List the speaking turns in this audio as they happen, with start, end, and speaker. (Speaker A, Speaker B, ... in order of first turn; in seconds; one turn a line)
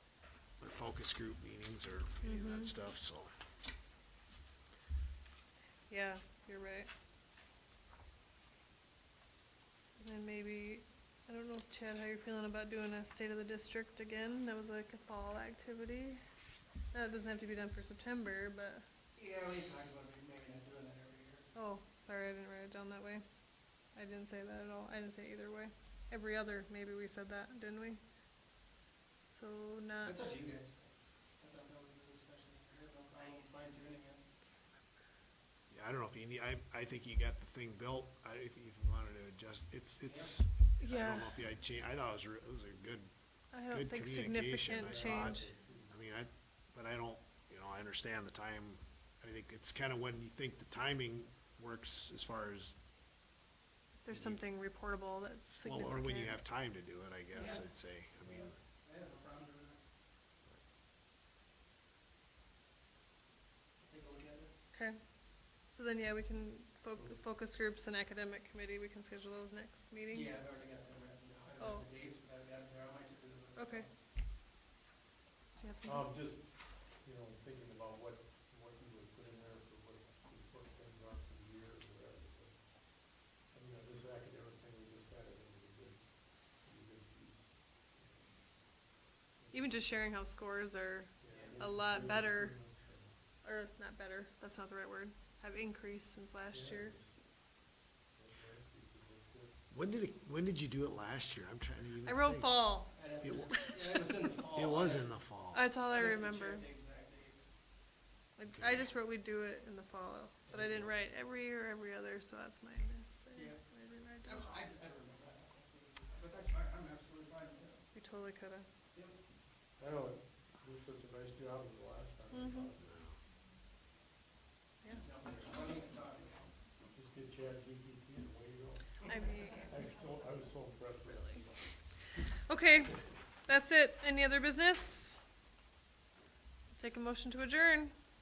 Speaker A: 0.6-3.3
Speaker B: 2.2-2.7
Speaker B: 5.9-6.9
Speaker B: 10.0-16.2
Speaker B: 16.9-18.8
Speaker C: 19.1-21.4
Speaker B: 21.5-23.2
Speaker B: 23.9-28.0
Speaker B: 29.3-30.3
Speaker C: 30.0-30.8
Speaker C: 31.4-34.2
Speaker A: 35.7-43.1
Speaker C: 40.1-40.4
Speaker B: 40.8-41.4
Speaker B: 43.5-45.5
Speaker A: 43.7-52.7
Speaker D: 44.8-45.9
Speaker B: 54.0-56.4
Speaker A: 54.1-54.4
Speaker A: 55.6-58.5
Speaker C: 57.3-57.6
Speaker C: 58.2-59.8
Speaker C: 63.8-64.5
Speaker B: 64.7-65.0
Speaker B: 65.7-70.3
Speaker D: 66.9-67.2
Speaker C: 70.1-73.9
Speaker B: 71.6-71.8
Speaker B: 73.5-73.9
Speaker B: 75.5-76.1
Speaker D: 75.8-88.8
Speaker D: 89.4-90.0
Speaker B: 89.5-92.5
Speaker D: 91.2-93.2
Speaker C: 91.3-91.6
Speaker B: 93.4-97.0
Speaker D: 96.5-97.1
Speaker D: 98.1-99.6
Speaker A: 99.7-102.6
Speaker B: 102.0-103.0
Speaker C: 102.9-105.1
Speaker A: 103.2-103.5
Speaker B: 103.5-103.8
Speaker A: 104.5-105.6
Speaker B: 105.5-106.7
Speaker C: 105.9-107.5
Speaker B: 108.4-114.7
Speaker A: 108.5-108.9
Speaker D: 110.5-111.0
Speaker C: 113.3-113.6
Speaker C: 114.2-117.8
Speaker B: 117.9-118.7
Speaker D: 119.8-122.9
Speaker B: 122.3-122.7
Speaker A: 122.8-123.2
Speaker C: 125.0-126.5
Speaker D: 126.9-132.0
Speaker B: 129.0-129.7
Speaker B: 132.3-135.2
Speaker B: 136.8-137.9